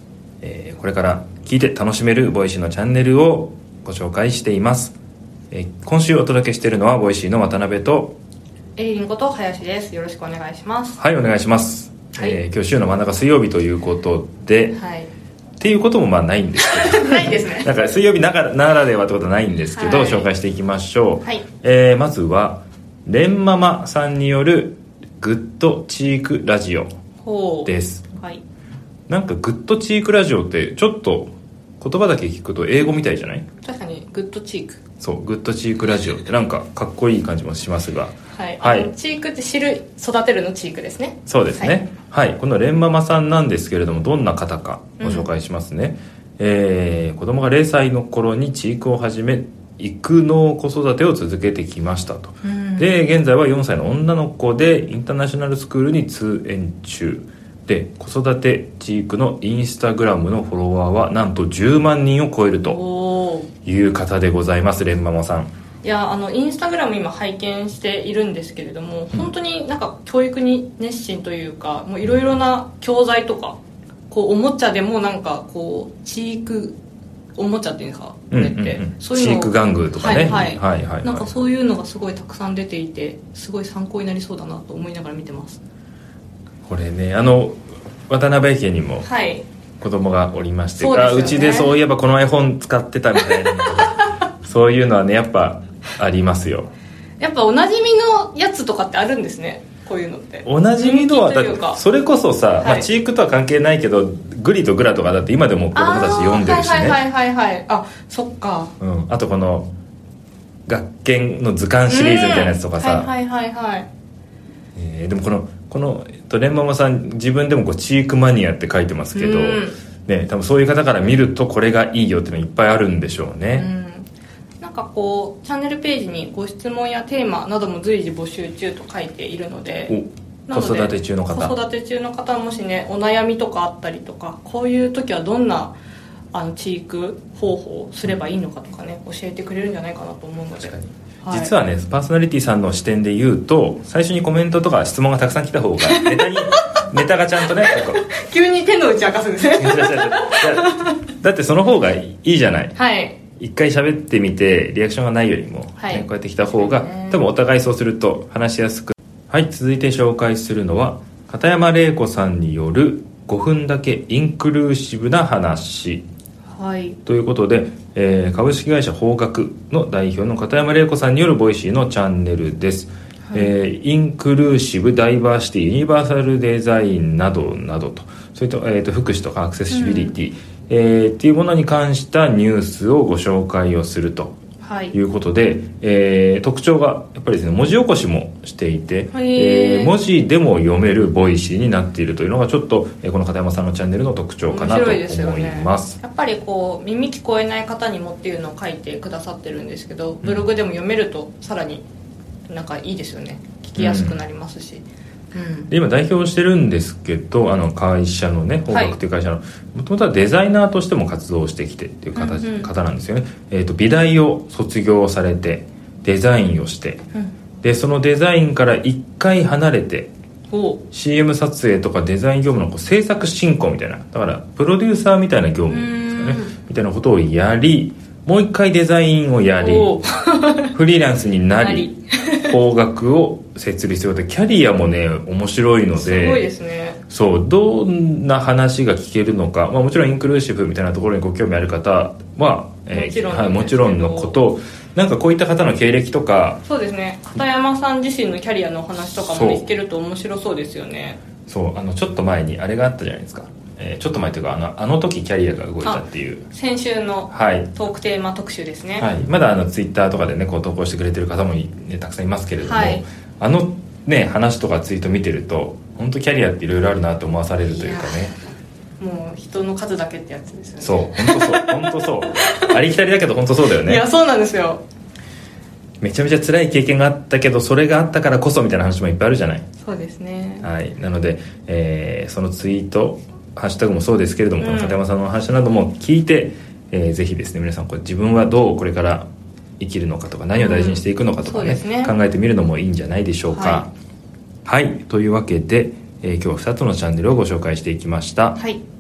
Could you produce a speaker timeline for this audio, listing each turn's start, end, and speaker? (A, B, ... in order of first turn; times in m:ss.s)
0:00.4-0:04.9 A
0:05.5-0:08.2 A
0:08.8-0:11.0 B
0:11.0-0:14.8 A
0:14.7-0:15.1 B
0:15.6-0:26.9 A
0:16.7-0:17.7 B
0:19.7-0:20.3 B
0:27.2-0:28.4 B
0:27.6-0:28.1 A
0:29.1-0:33.5 A
0:33.6-0:34.8 B
0:35.0-0:38.9 A
0:38.3-0:41.8 B
0:41.3-1:02.8 A
0:45.0-0:45.3 B
0:52.4-0:52.9 B
1:02.6-1:03.5 B
1:03.6-1:05.5 A
1:05.8-1:13.6 B
1:14.1-1:16.8 B
1:17.4-1:25.6 B
1:18.3-1:21.3 A
1:26.7-1:29.1 A
1:29.0-1:29.5 B
1:29.8-1:36.7 A
1:30.8-1:31.7 B
1:33.3-1:33.9 B
1:37.2-1:41.8 B
1:40.4-1:47.0 A
1:42.6-1:42.9 B
1:45.7-1:48.7 B
1:48.8-1:49.7 A
1:50.7-1:53.1 A
1:51.9-1:53.9 B
1:54.8-2:03.7 A
1:59.2-1:59.8 B
2:03.5-2:04.1 B
2:04.6-2:15.8 B
2:09.9-2:11.5 A
2:16.3-2:21.5 B
2:20.6-2:28.0 A
2:25.8-2:26.5 B
2:27.6-2:30.9 B
2:29.5-2:32.8 A
2:32.8-2:33.2 B
2:33.4-2:46.0 A
2:35.8-2:37.2 B
2:46.5-2:47.0 B
2:47.0-3:04.4 A
2:59.7-3:00.1 B
3:04.6-3:05.0 B
3:04.9-3:16.0 A
3:09.1-3:10.0 B
3:14.5-3:21.8 B
3:22.5-3:25.7 B
3:23.8-3:24.2 A
3:25.7-3:37.0 A
3:28.7-3:29.0 B
3:32.2-3:32.7 B
3:37.6-3:40.1 A
3:40.5-3:40.8 B
3:40.9-3:50.0 A
3:45.7-3:46.5 B
3:49.6-3:50.8 B
3:50.7-3:56.4 A
3:51.6-3:52.6 B
3:56.0-3:57.0 B
3:57.1-4:06.6 A
4:02.9-4:04.4 B
4:06.6-4:11.2 B
4:09.2-4:09.7 A
4:11.5-4:16.5 A
4:15.8-4:19.1 B
4:17.3-4:17.7 A
4:19.0-4:28.4 A
4:22.6-4:23.0 B
4:27.7-4:28.3 B
4:29.0-4:32.8 B
4:30.8-4:34.0 A
4:33.8-4:34.8 B
4:36.0-4:39.7 A
4:39.8-4:40.7 B
4:40.6-4:49.3 A
4:44.6-4:45.0 B
4:49.8-4:53.9 A
4:50.6-4:52.2 B
4:53.5-4:53.9 B
4:54.6-4:58.6 A